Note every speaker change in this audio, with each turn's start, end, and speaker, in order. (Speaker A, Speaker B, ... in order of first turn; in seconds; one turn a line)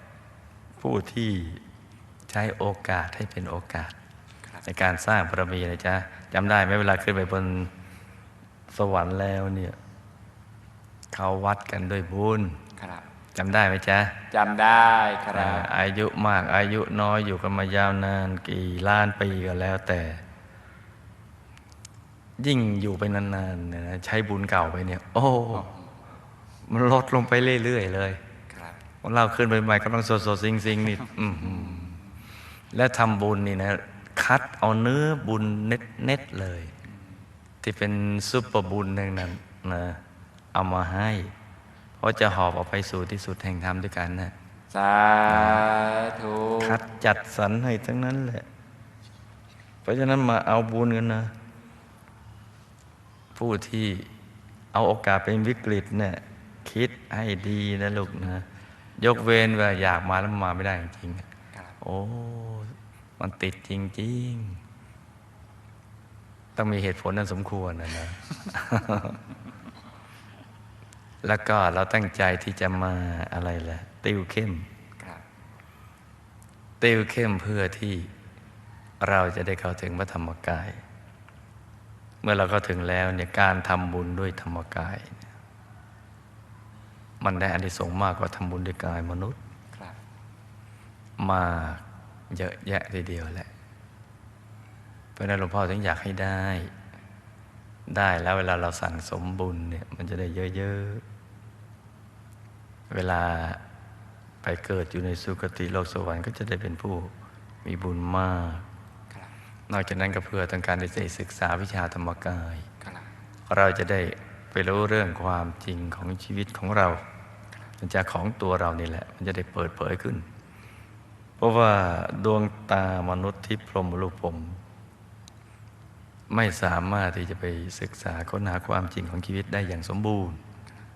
Speaker A: 0.8-1.6
Speaker A: 2.3-3.9
Speaker A: 4.6-7.7
Speaker A: 8.7-9.8
Speaker A: 11.1-12.6
Speaker B: 12.8-13.1
Speaker A: 13.3-14.2
Speaker B: 14.3-15.7
Speaker A: 15.3-20.2
Speaker A: 22.4-25.7
Speaker A: 26.6-28.2
Speaker B: 28.5-28.8
Speaker A: 29.0-32.0
Speaker B: 31.4-32.0
Speaker A: 32.7-36.7
Speaker A: 37.6-40.0
Speaker A: 40.5-41.3
Speaker A: 42.0-44.3
Speaker B: 44.7-46.8
Speaker A: 45.3-45.7
Speaker A: 46.6-48.5
Speaker A: 49.8-51.3
Speaker A: 53.3-54.1
Speaker A: 54.7-61.3
Speaker A: 61.8-64.6
Speaker A: 66.5-69.2
Speaker A: 71.2-74.7
Speaker B: 75.0-75.2
Speaker A: 76.8-78.1
Speaker A: 79.0-80.8
Speaker A: 82.2-85.2
Speaker A: 87.2-89.4
Speaker A: 91.2-93.5
Speaker A: 95.2-96.7
Speaker A: 97.9-101.0
Speaker A: 102.9-103.6
Speaker A: 104.4-107.1
Speaker A: 107.6-108.7
Speaker A: 109.7-112.7
Speaker B: 112.8-113.1
Speaker A: 113.5-117.0
Speaker A: 117.8-120.2
Speaker A: 121.4-124.6
Speaker A: 126.3-130.4